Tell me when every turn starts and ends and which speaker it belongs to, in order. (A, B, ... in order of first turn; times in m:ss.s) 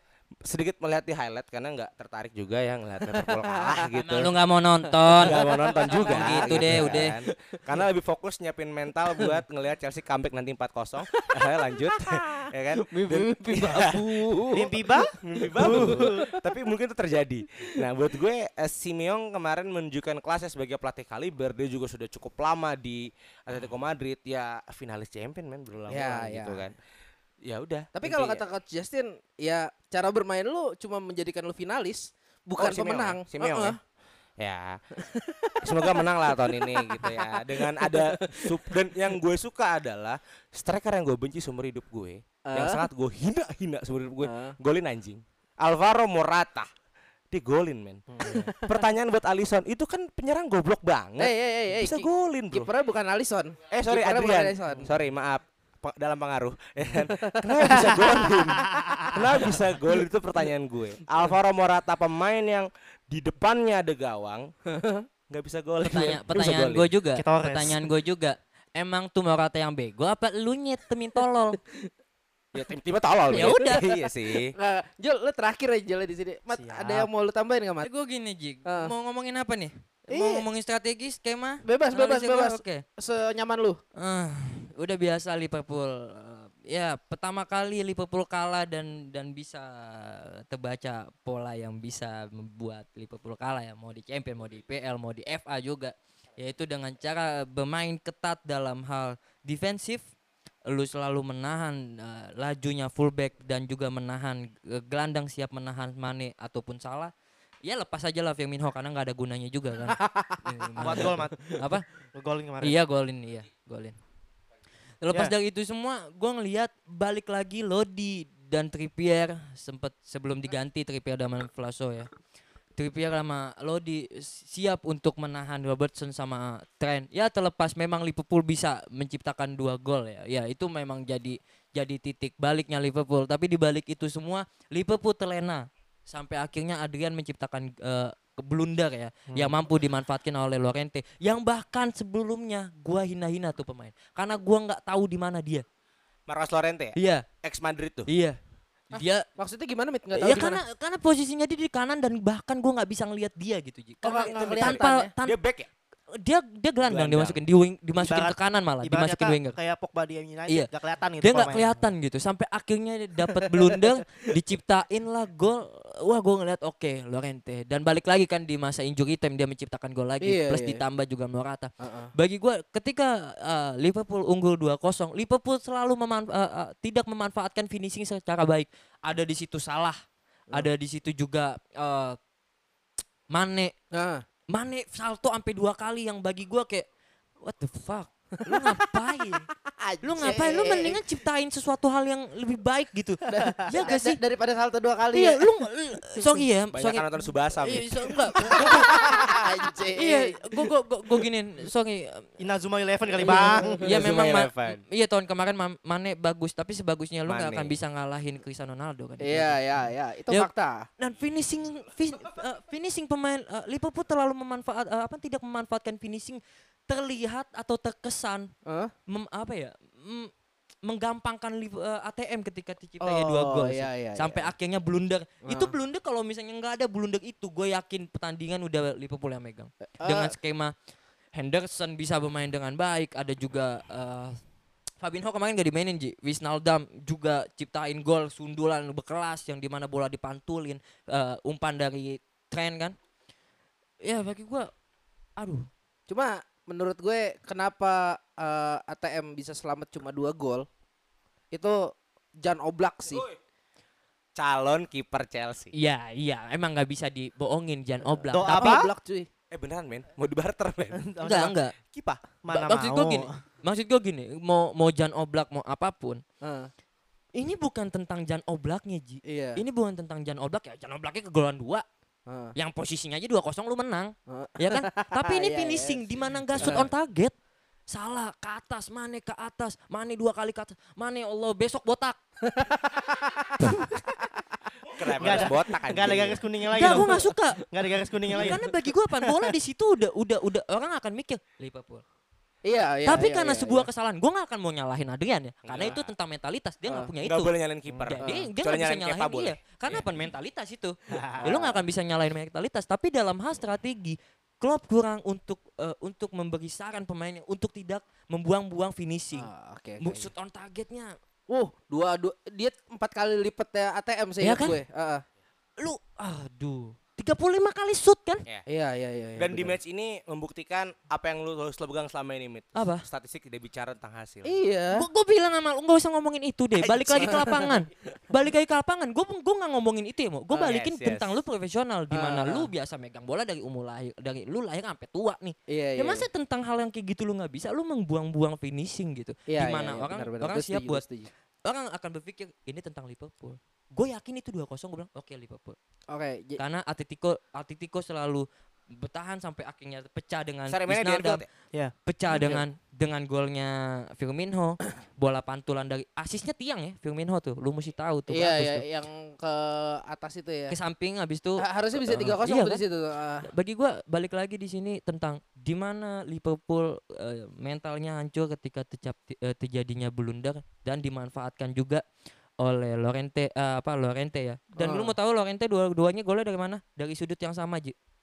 0:00.4-0:04.3 A
0:03.1-0:03.8 B
0:03.9-0:07.2 C
0:05.0-0:07.7 B
0:05.2-0:14.4 A
0:11.1-0:16.4 B
0:14.5-0:16.3 D
0:15.2-0:26.8 A
0:25.9-0:26.7 B
0:27.4-0:28.4 A
0:28.0-0:33.8 B
0:32.6-0:33.8 A
0:34.4-0:34.8 A
0:35.0-0:38.7 B
0:35.6-0:46.7 A
0:42.5-0:42.9 B
0:44.2-0:44.6 B
0:47.3-0:52.7 A
0:48.2-0:48.5 D
0:48.2-0:48.8 B
0:51.2-0:54.9 B
0:53.7-1:04.5 A
0:57.0-0:58.4 B
0:57.9-0:59.2 D
1:04.7-1:05.1 B
1:05.3-1:06.9 A
1:05.8-1:11.6 C
1:07.2-1:07.8 D
1:12.5-1:14.5 A
1:13.3-1:13.8 C
1:13.4-1:13.8 B
1:14.5-1:17.9 B
1:16.5-1:17.1 D
1:17.8-1:22.8 C
1:18.7-1:18.9 B
1:20.1-1:20.5 B
1:21.6-1:23.8 B
1:24.0-1:40.1 C
1:40.7-1:47.1 C
1:47.6-1:51.8 C
1:50.0-1:51.2 B
1:50.8-1:51.6 D
1:52.2-1:52.8 D
1:52.6-1:54.0 C
1:55.0-2:02.1 C
2:02.8-2:25.6 C
2:19.3-2:19.6 D
2:26.3-2:28.1 A
2:27.0-2:27.3 C
2:28.1-2:28.4 C
2:28.9-2:29.2 C
2:29.0-2:30.6 B
2:30.2-2:35.4 C
2:34.0-2:35.1 B
2:34.0-2:35.7 A
2:36.2-2:39.6 C
2:36.8-2:37.4 A
2:38.0-2:41.8 D
2:41.2-3:00.0 C
2:50.2-2:50.8 B
2:51.8-2:52.1 B
3:00.5-3:02.2 C
3:03.3-3:03.7 C
3:03.9-3:04.2 B
3:04.5-3:06.9 C
3:07.4-3:09.5 C
3:08.4-3:08.8 B
3:09.7-3:11.1 B
3:10.0-3:14.2 C
3:13.3-3:15.5 B
3:15.1-3:19.1 C
3:16.7-3:18.2 A
3:18.4-3:20.6 B
3:20.0-3:22.3 C
3:22.4-3:23.8 D
3:23.2-3:23.9 B
3:23.2-3:29.6 C
3:23.8-3:24.8 A
3:27.3-3:27.7 A
3:29.2-3:30.9 B
3:30.3-3:38.5 C
3:38.7-3:38.9 B
3:39.1-3:40.3 C
3:40.8-3:50.7 C
3:43.0-3:44.5 B
3:45.4-3:45.8 B
3:50.0-3:50.3 B
3:51.3-3:54.4 C
3:55.0-4:03.0 C
4:04.0-4:04.7 C
4:05.4-4:05.7 C
4:06.1-4:10.7 B
4:11.5-4:13.3 B
4:13.1-4:13.4 A
4:14.4-4:15.7 A
4:15.7-4:18.7 C
4:18.2-4:19.3 B
4:18.3-4:18.9 D
4:19.5-4:21.0 A
4:21.0-4:21.6 D
4:21.2-4:21.8 C
4:21.8-4:22.2 A
4:22.4-4:23.2 D
4:22.5-4:26.2 C
4:26.4-4:26.7 B
4:27.4-4:31.8 C
4:29.3-4:29.6 B
4:32.3-4:32.5 B
4:32.6-4:37.3 C
4:34.3-4:36.0 B
4:36.6-4:36.9 B
4:37.9-4:42.2 C
4:42.4-4:43.7 B
4:44.9-4:46.4 A
4:45.2-4:48.7 D
4:46.7-4:47.7 C
4:48.3-4:52.0 C
4:52.6-4:53.9 B
4:53.0-4:57.5 C
4:55.6-4:56.1 A
4:57.2-5:00.0 A
4:58.1-5:09.5 C
5:01.1-5:01.5 D
5:01.4-5:01.8 B
5:09.3-5:10.3 B
5:10.0-5:11.2 C
5:11.5-5:15.2 B
5:14.4-5:14.8 C
5:15.8-5:18.4 C
5:18.7-5:19.8 B
5:19.4-5:24.5 A
5:22.8-5:23.0 C
5:24.4-5:25.1 B
5:24.9-5:41.0 C
5:26.8-5:27.6 A
5:27.2-5:27.6 B
5:30.5-5:31.4 A
5:32.1-5:32.7 B
5:35.7-5:36.3 B
5:39.5-5:41.3 B
5:41.7-5:45.8 C
5:46.1-5:46.6 B
5:46.6-5:51.4 C
5:50.7-5:51.5 A
5:52.1-5:58.8 C
5:52.3-5:52.6 B
5:58.3-6:00.8 B
6:00.7-6:02.8 C
6:01.6-6:03.5 B
6:03.4-6:12.0 C
6:12.6-6:18.0 C
6:14.8-6:15.2 B